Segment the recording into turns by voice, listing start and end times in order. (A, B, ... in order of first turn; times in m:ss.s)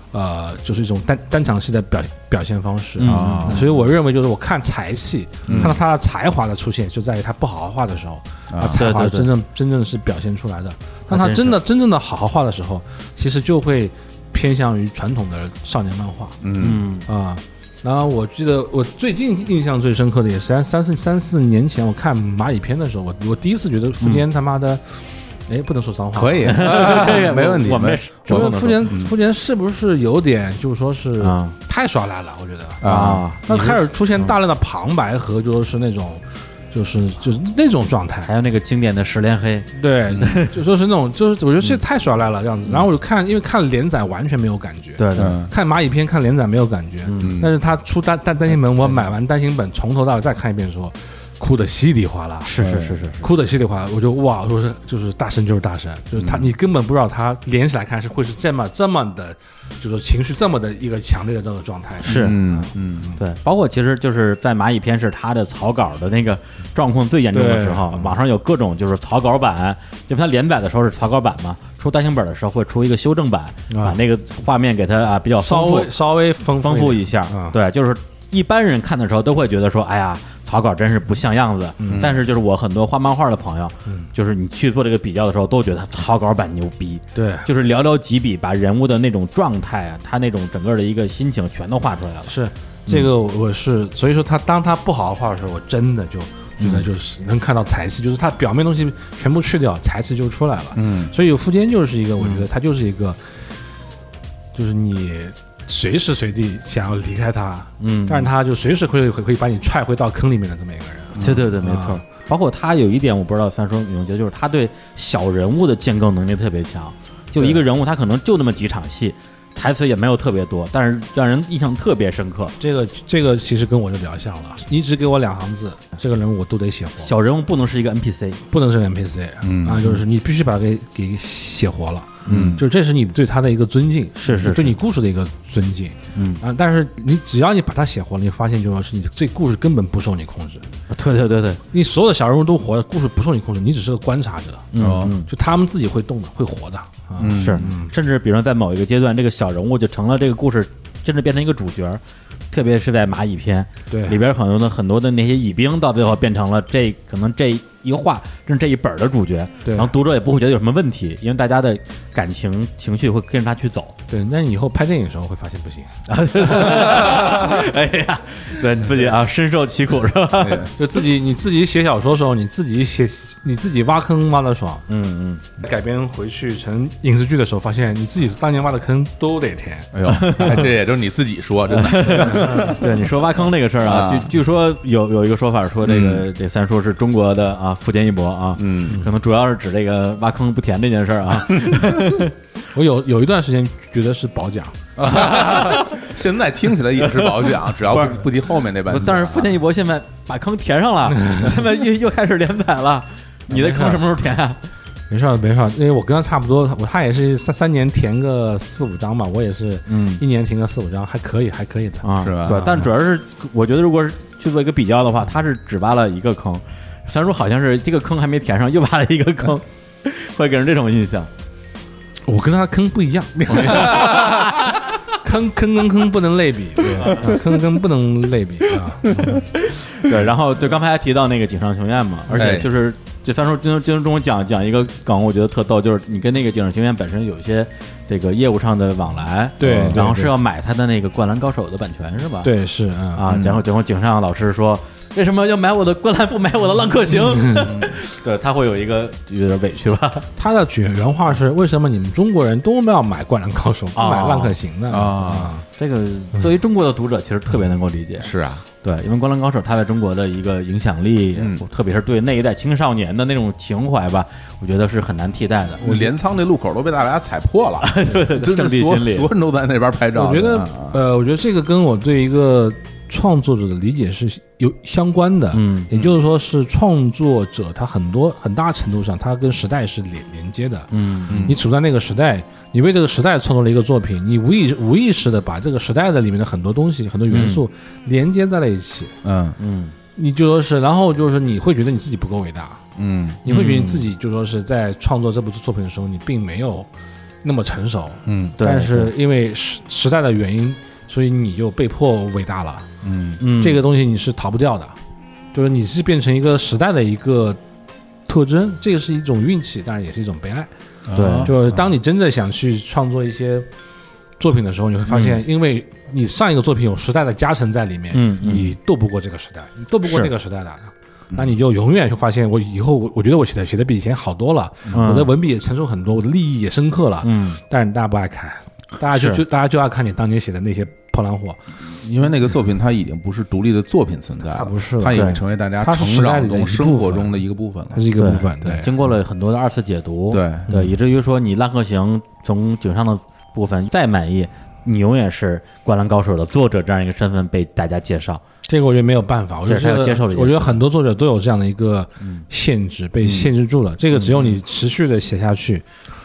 0:00.1-0:16.4 A
0:03.0-0:03.9 B
0:03.0-0:03.7 C
0:05.4-0:05.8 B
0:05.5-0:05.8 C
0:08.5-0:08.8 C
0:08.7-0:09.3 B
0:11.1-0:11.6 B
0:16.4-0:16.8 C
0:16.6-0:17.1 B
0:17.0-0:27.4 A
0:26.1-0:29.1 C
0:26.4-0:28.9 B
0:28.3-0:32.8 A
0:31.2-0:31.6 B
0:32.8-0:33.2 C
0:32.8-0:34.3 B
0:33.4-0:38.3 A
0:38.2-0:40.5 B
0:39.7-0:52.5 A
0:45.0-0:45.4 B
0:45.2-0:45.5 C
0:47.0-0:47.4 B
0:47.2-0:47.5 C
0:52.4-0:53.3 B
0:52.6-0:53.0 C
0:53.2-1:03.1 A
0:56.2-0:56.5 C
1:02.0-1:02.4 B
1:02.0-1:03.1 C
1:03.2-1:32.3 B
1:07.3-1:08.1 A
1:13.7-1:14.0 A
1:15.4-1:17.6 A
1:21.8-1:22.1 A
1:21.9-1:22.2 C
1:27.1-1:27.5 A
1:32.3-1:43.2 A
1:36.6-1:36.9 B
1:40.7-1:41.1 C
1:42.2-1:42.4 B
1:44.5-1:52.0 A
1:47.8-1:48.3 B
1:51.2-1:51.5 C
1:51.2-2:02.5 B
2:02.6-2:07.1 A
2:07.0-2:08.4 B
2:08.5-2:20.6 A
2:09.4-2:09.8 C
2:12.2-2:12.6 B
2:12.3-2:12.6 C
2:14.2-2:14.8 B
2:16.1-2:16.4 B
2:20.9-2:21.6 B
2:21.7-2:24.7 A
2:24.7-2:25.3 B
2:24.8-2:25.1 C
2:25.2-2:27.9 A
2:27.2-2:27.6 C
2:27.3-2:44.0 B
2:33.9-2:34.2 A
2:39.6-2:39.9 A
2:44.1-2:47.6 A
2:46.1-2:50.7 B
2:50.4-2:50.7 C
2:50.8-2:54.8 A
2:54.9-2:55.4 B
2:55.6-3:00.7 A
2:59.9-3:02.9 C
3:00.0-3:00.7 B
3:01.7-3:12.3 B
3:03.8-3:04.3 C
3:05.8-3:06.3 C
3:08.6-3:09.0 C
3:12.7-3:14.8 A
3:15.0-3:19.6 C
3:15.1-3:16.1 B
3:17.0-3:18.3 B
3:18.8-3:24.6 B
3:21.1-3:21.6 A
3:23.5-3:24.0 A
3:25.1-3:32.8 A
3:29.9-3:30.2 B
3:32.0-3:41.3 B
3:32.2-3:32.8 C
3:42.2-3:49.4 A
3:43.4-3:44.6 C
3:43.5-3:44.3 B
3:46.9-3:47.4 B
3:49.2-4:02.5 B
3:52.3-3:52.7 C
3:59.6-4:00.3 A
3:59.7-4:00.0 C
4:02.4-4:03.2 A
4:03.1-4:10.3 B
4:03.3-4:03.6 C
4:07.4-4:07.7 A
4:07.6-4:08.0 C
4:10.4-4:15.6 A
4:13.9-4:14.6 B
4:14.9-4:15.5 C
4:15.7-4:25.9 B
4:18.2-4:18.6 C
4:21.4-4:21.6 C
4:25.8-4:31.0 C
4:27.8-4:29.3 B
4:30.1-4:49.1 A
4:35.5-4:35.9 B
4:40.9-4:41.6 B
4:41.3-4:41.6 C
4:47.3-4:47.6 B
4:49.2-4:49.6 C
4:49.6-4:49.9 B
4:50.2-4:52.8 A
4:53.0-4:53.4 C
4:53.4-4:56.9 A
4:53.4-4:54.1 B
4:57.4-5:02.9 A
4:58.2-4:58.6 C
4:58.6-4:59.1 B
5:03.0-5:03.4 C
5:03.4-5:03.8 B
5:03.5-5:05.0 A
5:05.5-5:07.6 A
5:08.3-5:10.7 A
5:11.1-5:11.9 C
5:11.1-5:11.5 B
5:11.4-5:13.7 A
5:14.4-5:31.6 A
5:18.1-5:18.7 B
5:24.9-5:25.3 B
5:27.2-5:27.6 B
5:29.1-5:29.4 B
5:31.8-5:38.0 C
5:34.5-5:37.4 A
5:35.1-5:35.4 B
5:37.9-5:38.9 A
5:38.2-5:48.4 B
5:40.3-5:40.8 C
5:48.7-5:55.8 A
5:49.6-5:50.8 B
5:53.2-5:53.5 B
5:54.1-5:54.6 B